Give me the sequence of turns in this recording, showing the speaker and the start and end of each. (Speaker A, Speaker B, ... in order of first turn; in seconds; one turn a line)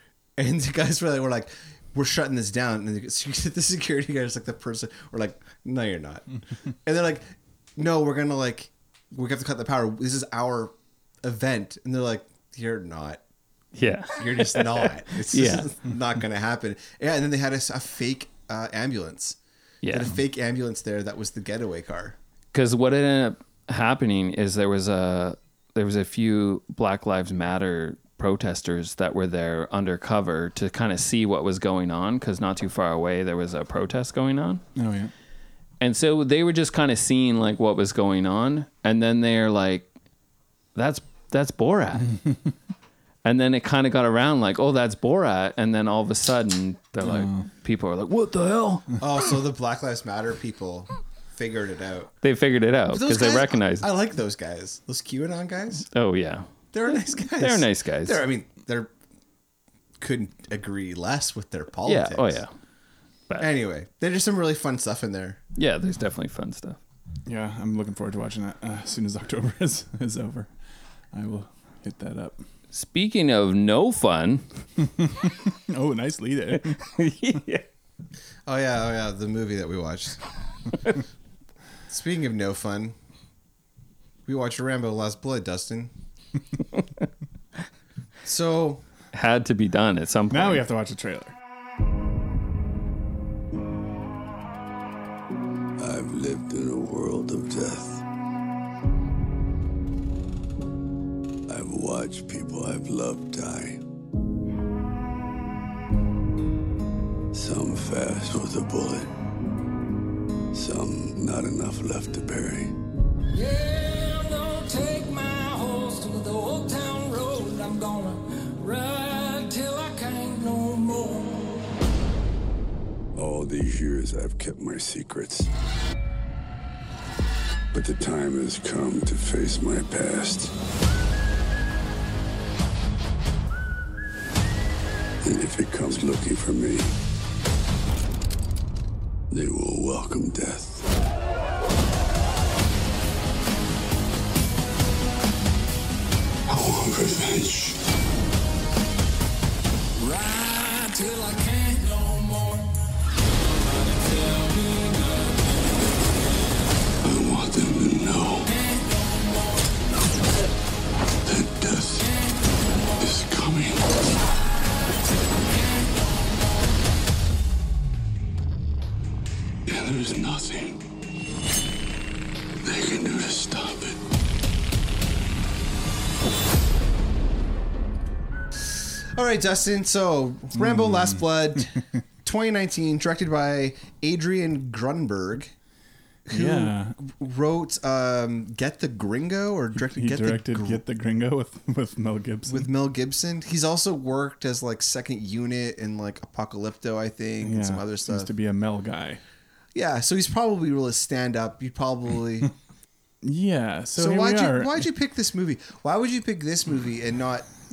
Speaker A: 0.4-13.2
Speaker B: 13.7-15.7
Speaker A: 14.2-19.4
Speaker B: 19.8-20.1
Speaker A: 19.9-22.2
Speaker B: 22.5-34.6
Speaker C: 34.8-35.1
Speaker B: 35.8-39.9
Speaker B: 40.7-42.2
Speaker B: 43.2-49.0
Speaker C: 47.0-47.5
Speaker A: 49.0-52.1
Speaker B: 52.2-53.9
Speaker A: 52.9-55.9
Speaker B: 55.9-58.2
Speaker A: 56.7-58.9
Speaker A: 60.0-62.4
Speaker B: 61.9-62.5
Speaker A: 63.4-65.4
Speaker B: 65.5-66.8
Speaker C: 67.2-70.5
Speaker C: 71.1-72.4
Speaker B: 72.7-74.4
Speaker C: 74.8-76.8
Speaker B: 76.7-77.6
Speaker A: 78.5-80.2
Speaker A: 81.9-82.9
Speaker A: 84.3-85.9
Speaker A: 88.2-88.8
Speaker B: 89.1-90.6
Speaker C: 90.3-91.3
Speaker D: 95.8-98.0
Speaker D: 101.5-103.8
Speaker D: 107.3-109.1
Speaker D: 110.5-112.8
Speaker E: 113.3-121.7
Speaker D: 123.1-125.5
Speaker D: 127.7-130.5
Speaker D: 135.2-136.9
Speaker D: 139.3-140.8
Speaker D: 146.5-147.8
Speaker E: 149.9-152.8
Speaker E: 153.6-155.5
Speaker D: 157.0-158.5
Speaker E: 158.4-159.8
Speaker D: 161.2-162.1
Speaker E: 162.0-162.9
Speaker D: 163.0-163.9
Speaker E: 165.4-166.7
Speaker D: 169.7-170.8
Speaker D: 172.6-174.0
Speaker A: 178.7-185.5
Speaker C: 180.5-181.8
Speaker A: 186.2-190.8
Speaker C: 186.3-187.0
Speaker C: 189.7-192.7
Speaker A: 192.5-198.3
Speaker C: 197.4-199.2
Speaker A: 199.7-202.5
Speaker C: 203.2-204.9
Speaker A: 204.0-207.5